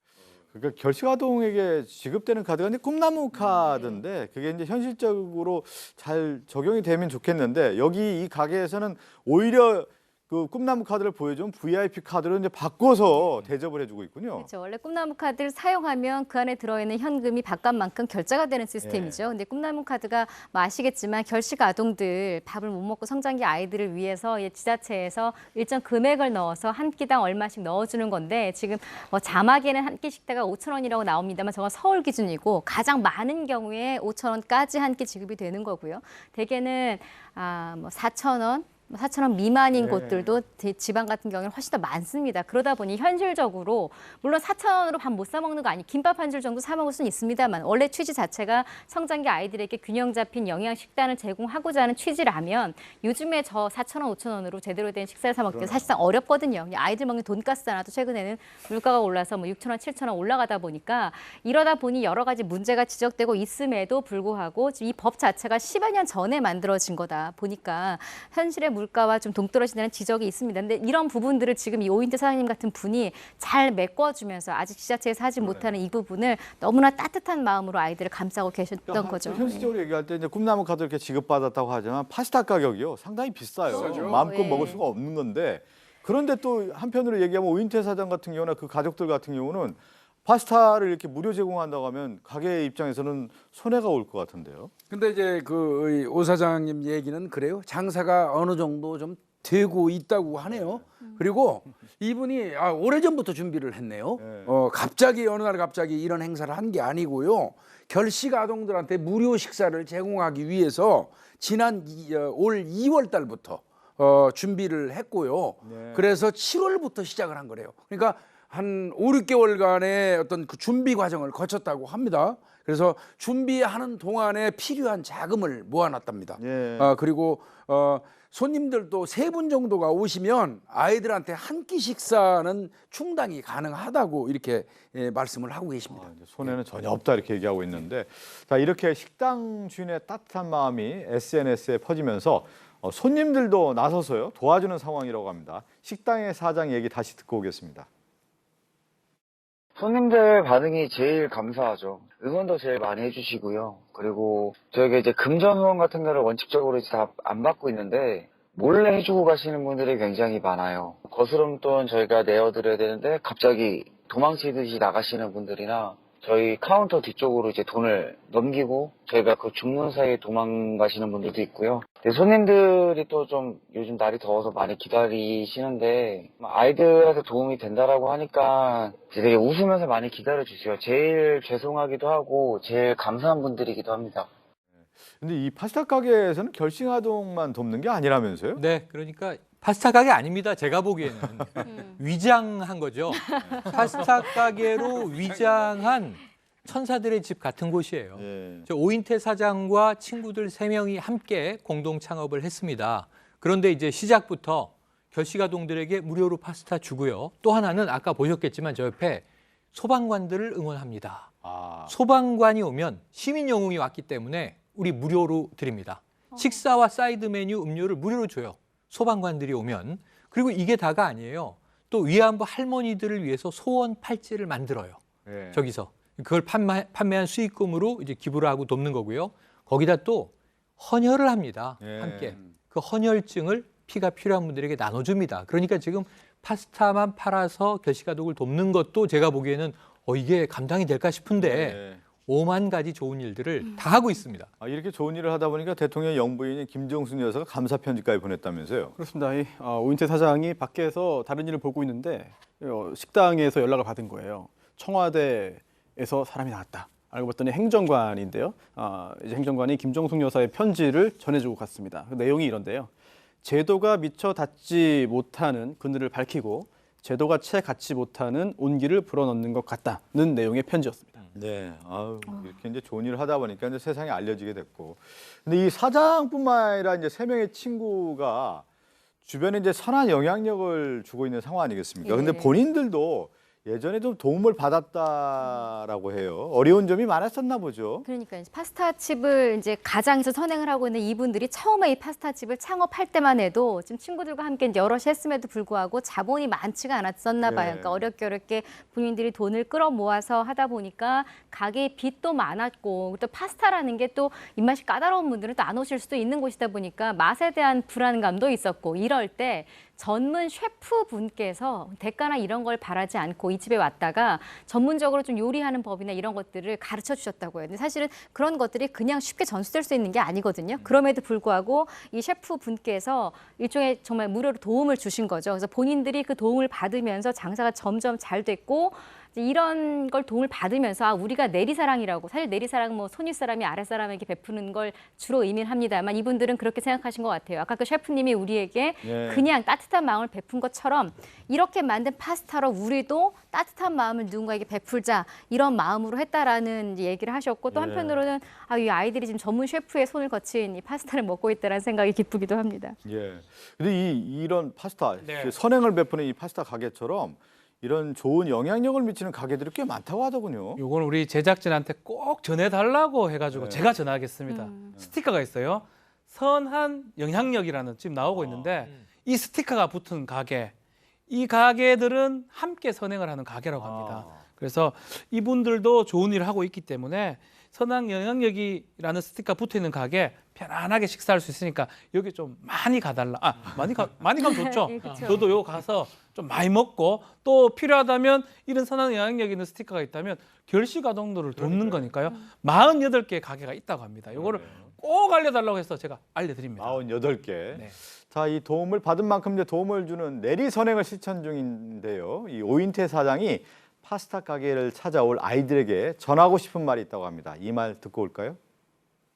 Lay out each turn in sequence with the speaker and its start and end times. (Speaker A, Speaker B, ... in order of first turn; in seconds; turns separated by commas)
Speaker A: 0.5-14.5, Speaker B: 3.7-4.0, Speaker B: 14.4-79.7, Speaker A: 18.8-19.2, Speaker A: 39.7-40.3, Speaker A: 55.5-56.0, Speaker A: 75.4-75.7, Speaker A: 78.9-94.7, Speaker B: 83.7-84.8, Speaker C: 83.7-84.7, Speaker C: 94.9-136.5, Speaker A: 100.5-100.8, Speaker A: 104.2-104.5, Speaker A: 115.6-116.1, Speaker A: 126.4-126.9, Speaker A: 135.9-147.9, Speaker D: 149.8-184.3, Speaker A: 185.0-188.6, Speaker E: 188.6-211.3, Speaker A: 191.1-191.6, Speaker B: 191.7-191.9, Speaker A: 193.4-194.0, Speaker C: 195.3-195.7, Speaker A: 198.1-198.7, Speaker A: 211.4-211.9, Speaker E: 211.8-225.0, Speaker B: 216.3-216.6, Speaker A: 225.2-225.6, Speaker E: 225.5-244.5, Speaker A: 231.8-232.3, Speaker A: 241.4-242.0, Speaker A: 244.6-248.9, Speaker F: 249.0-262.9, Speaker F: 263.4-271.1, Speaker A: 271.3-278.6, Speaker A: 279.2-288.1, Speaker B: 282.0-282.6, Speaker B: 288.0-353.0, Speaker A: 297.4-298.1, Speaker A: 339.0-339.5, Speaker A: 347.7-348.2, Speaker A: 353.0-360.8, Speaker G: 355.2-355.6, Speaker G: 360.8-370.7, Speaker A: 363.5-363.9, Speaker B: 364.5-364.9, Speaker A: 368.3-368.8, Speaker E: 368.8-369.1, Speaker G: 371.3-397.0, Speaker A: 373.8-374.4, Speaker B: 384.4-385.5, Speaker E: 385.0-385.3, Speaker A: 391.6-392.1, Speaker A: 394.3-394.9, Speaker A: 396.8-408.6